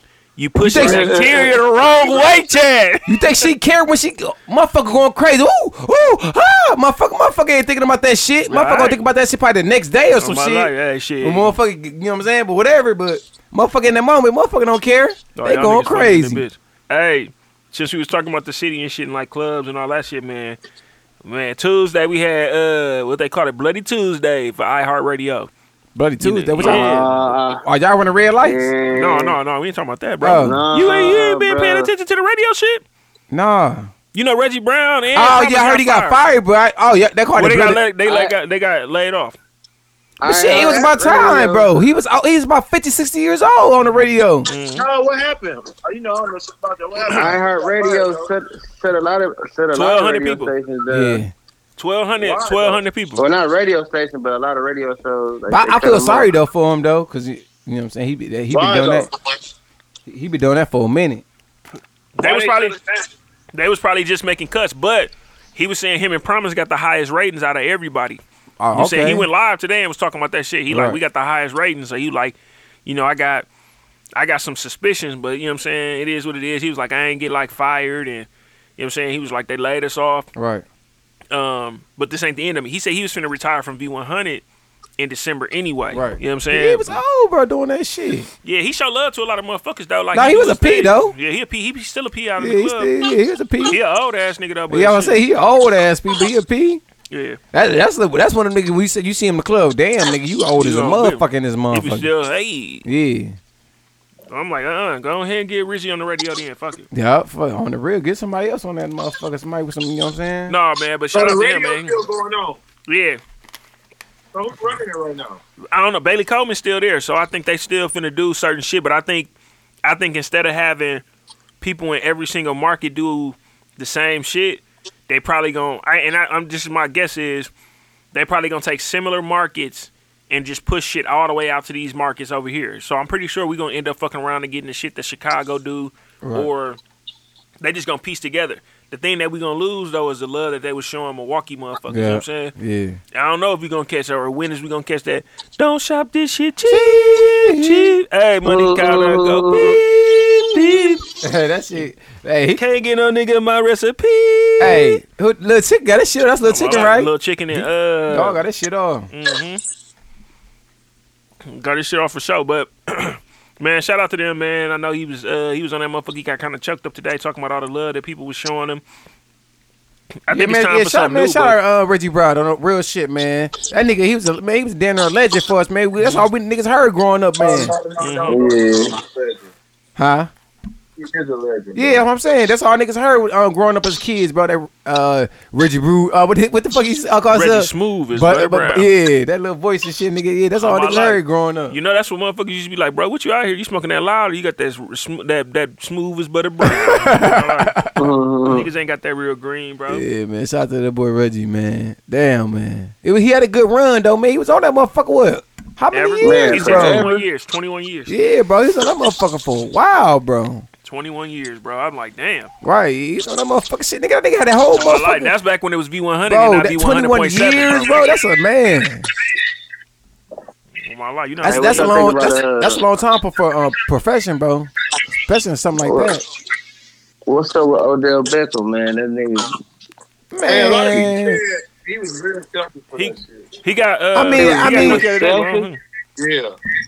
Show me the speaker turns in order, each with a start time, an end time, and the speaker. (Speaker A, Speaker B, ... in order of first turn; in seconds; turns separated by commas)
Speaker A: 0.4-3.5, Speaker B: 0.6-1.2, Speaker C: 0.8-1.5, Speaker B: 3.0-16.4, Speaker A: 8.5-9.0, Speaker A: 10.2-11.5, Speaker A: 15.3-20.6, Speaker A: 21.2-25.5, Speaker B: 25.9-28.7, Speaker A: 26.2-27.0, Speaker C: 26.6-27.6, Speaker C: 28.4-29.4, Speaker A: 28.9-32.8, Speaker B: 30.2-30.6, Speaker C: 30.4-31.9, Speaker B: 33.3-33.9, Speaker A: 34.1-36.2, Speaker B: 35.1-37.8, Speaker A: 37.3-39.4, Speaker C: 38.0-38.3, Speaker C: 40.2-41.7, Speaker B: 40.2-44.5, Speaker D: 40.5-40.9, Speaker A: 44.5-44.9, Speaker D: 44.8-48.3, Speaker C: 47.1-51.2, Speaker A: 49.7-50.5, Speaker B: 50.9-51.3, Speaker A: 51.8-53.2, Speaker D: 52.2-52.8, Speaker C: 53.2-56.3, Speaker B: 55.5-59.1, Speaker D: 58.5-59.1, Speaker B: 60.0-61.2, Speaker A: 62.1-62.8, Speaker D: 62.2-63.1, Speaker A: 63.5-68.2, Speaker B: 68.6-69.3, Speaker A: 68.7-73.5, Speaker B: 70.7-71.0, Speaker A: 74.2-80.3, Speaker B: 80.3-80.6, Speaker A: 81.3-84.4, Speaker A: 85.0-87.0, Speaker B: 85.9-88.3, Speaker A: 88.4-92.9, Speaker B: 90.1-91.1, Speaker B: 92.4-93.8, Speaker A: 93.7-95.2, Speaker B: 94.7-96.8, Speaker A: 97.1-97.4, Speaker B: 97.5-102.1, Speaker A: 100.5-102.8, Speaker B: 102.8-103.4, Speaker A: 104.3-106.9, Speaker B: 106.9-110.5, Speaker A: 110.5-112.0, Speaker D: 111.1-112.6, Speaker A: 112.9-113.2, Speaker D: 114.3-115.4, Speaker A: 115.7-119.3, Speaker A: 119.8-121.0, Speaker A: 121.6-127.5, Speaker A: 128.1-136.8, Speaker B: 136.2-136.5, Speaker A: 137.6-142.5, Speaker B: 141.9-143.0, Speaker A: 143.1-149.9, Speaker B: 146.7-147.9, Speaker C: 148.4-149.8, Speaker B: 149.6-152.6, Speaker A: 150.5-151.0, Speaker A: 152.5-155.0, Speaker B: 154.6-159.1, Speaker A: 156.4-158.4, Speaker A: 159.1-159.6, Speaker A: 161.4-168.8, Speaker A: 170.2-171.6, Speaker B: 170.3-177.8, Speaker D: 177.4-179.5, Speaker A: 178.0-178.4, Speaker C: 178.3-178.9, Speaker B: 180.0-180.3, Speaker D: 181.0-182.0, Speaker B: 181.7-191.8, Speaker A: 187.3-188.9, Speaker A: 190.6-197.7, Speaker B: 196.6-197.9, Speaker C: 198.0-198.7, Speaker A: 198.4-200.0, Speaker B: 199.9-207.1, Speaker A: 205.9-208.1, Speaker C: 206.2-207.2, Speaker B: 208.1-210.7, Speaker A: 210.8-212.5, Speaker B: 212.6-215.3, Speaker A: 214.7-218.1, Speaker B: 216.2-219.1, Speaker A: 220.8-222.1, Speaker B: 221.4-224.7, Speaker C: 221.5-222.8, Speaker B: 225.2-226.2, Speaker C: 225.8-226.1, Speaker C: 227.3-229.5, Speaker B: 230.3-231.4, Speaker D: 230.4-233.5, Speaker A: 232.9-235.8, Speaker B: 234.1-235.0, Speaker C: 234.3-235.7, Speaker D: 236.2-236.5